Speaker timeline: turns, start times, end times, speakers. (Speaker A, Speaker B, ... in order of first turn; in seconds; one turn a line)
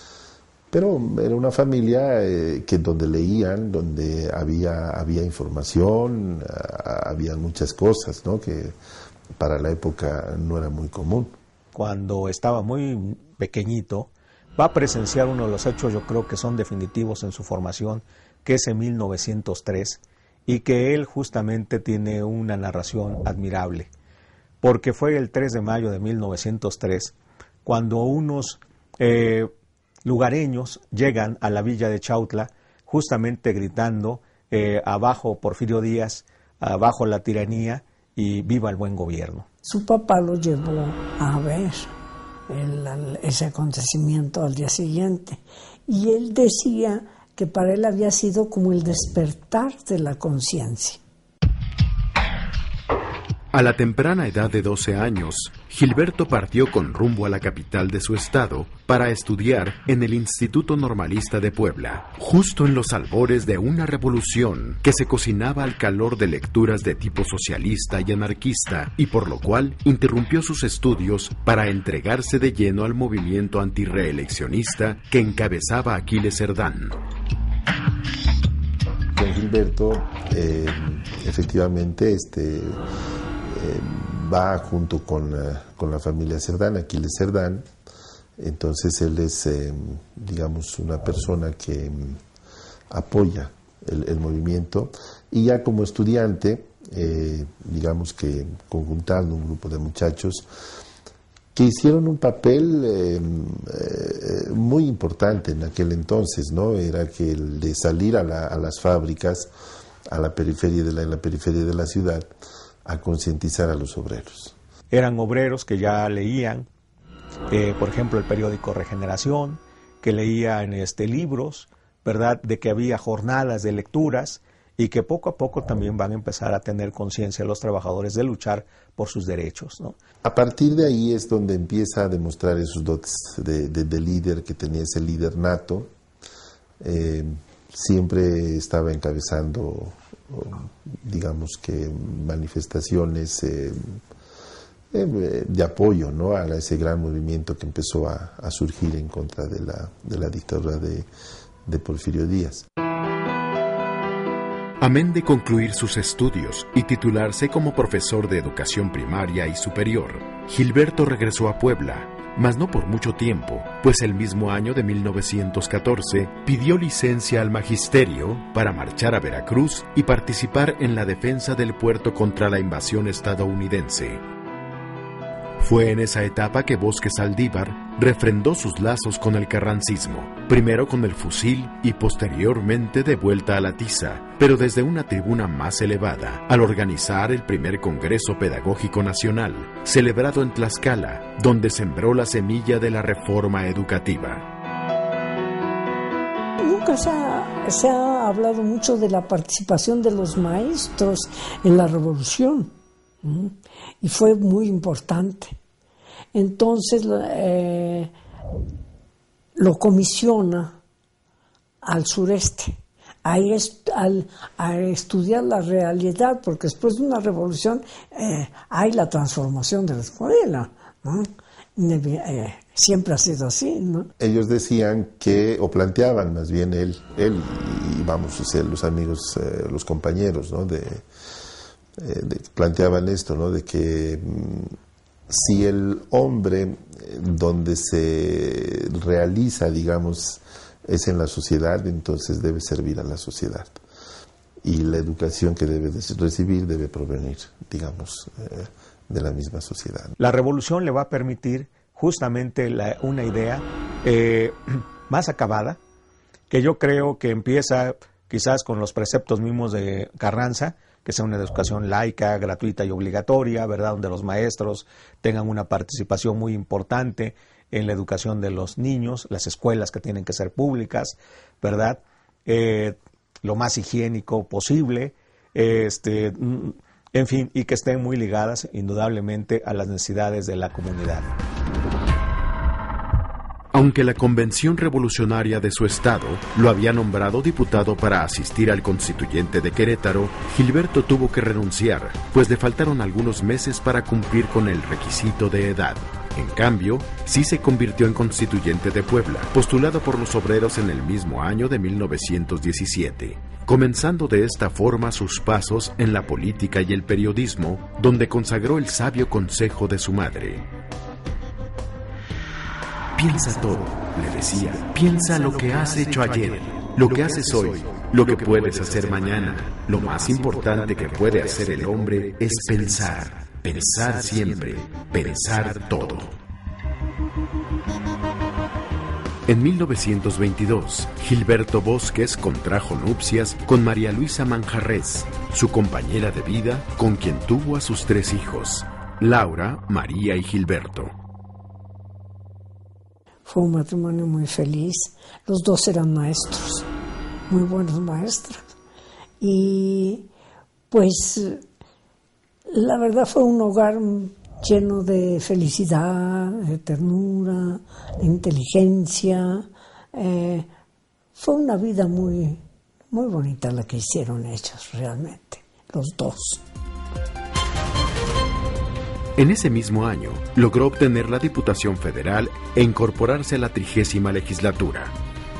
Speaker A: 0.7-8.8
Speaker A: 9.3-11.3
Speaker B: 11.7-23.9
Speaker B: 24.6-27.1
Speaker B: 27.6-29.5
Speaker B: 30.0-39.5
Speaker C: 39.6-41.9
Speaker C: 42.5-51.0
Speaker D: 53.5-77.0
Speaker A: 79.1-82.8
Speaker A: 83.4-87.7
Speaker A: 88.4-92.2
Speaker A: 92.9-100.5
Speaker A: 101.5-109.5
Speaker A: 110.1-112.3
Speaker A: 112.8-114.5
Speaker B: 114.9-116.7
Speaker B: 117.5-130.0
Speaker A: 130.2-135.9
Speaker A: 136.8-144.0
Speaker A: 144.9-151.1
Speaker A: 151.6-152.6
Speaker D: 154.8-174.2
Speaker D: 175.6-194.5
Speaker C: 196.6-205.6
Speaker C: 206.3-208.1
Speaker C: 209.6-210.8
Speaker C: 211.8-224.1
Speaker A: 224.2-231.1
Speaker A: 232.0-234.8
Speaker A: 235.3-243.8
Speaker A: 244.6-250.1
Speaker B: 250.2-255.8
Speaker B: 256.5-281.3
Speaker D: 283.7-310.6
Speaker D: 313.1-326.4
Speaker D: 329.5-341.1
Speaker C: 343.4-346.9
Speaker C: 347.5-348.6
Speaker C: 349.4-350.3
Speaker C: 350.9-351.6
Speaker C: 352.7-360.7
Speaker C: 361.3-366.6
Speaker D: 369.4-375.1